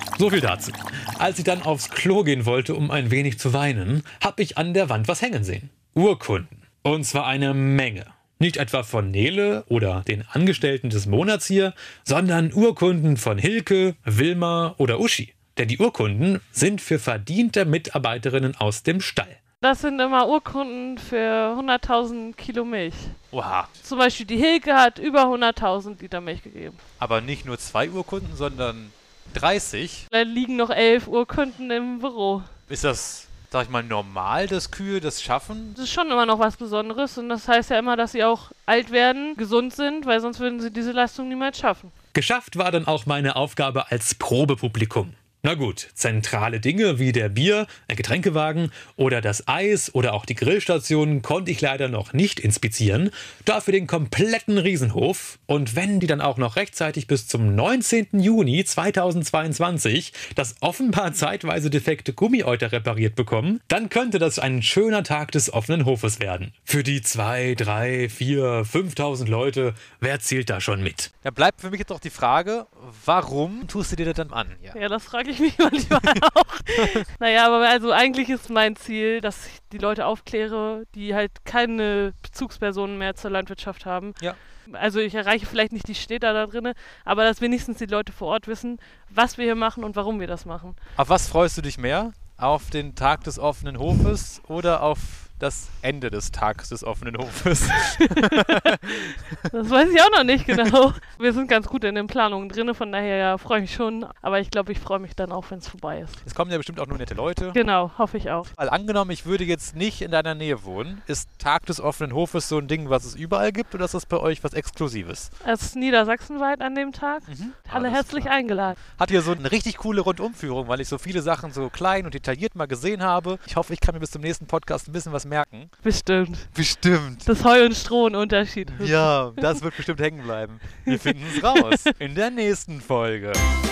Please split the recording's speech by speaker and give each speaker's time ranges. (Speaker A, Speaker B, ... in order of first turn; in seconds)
Speaker A: 0.2-19.4, 42.1-71.1
Speaker B: 19.6-23.2, 23.8-26.8, 30.1-32.5, 35.8-41.9, 74.7-90.8, 98.0-106.2, 107.5-108.5, 115.4-118.8, 125.8-126.5, 127.2-129.6, 130.8-131.9
Speaker C: 23.3-23.7, 27.0-30.0, 32.7-35.8, 71.2-74.8, 91.0-99.5, 106.2-107.6, 108.5-115.3, 117.3-125.7, 126.5-127.3, 128.7-133.4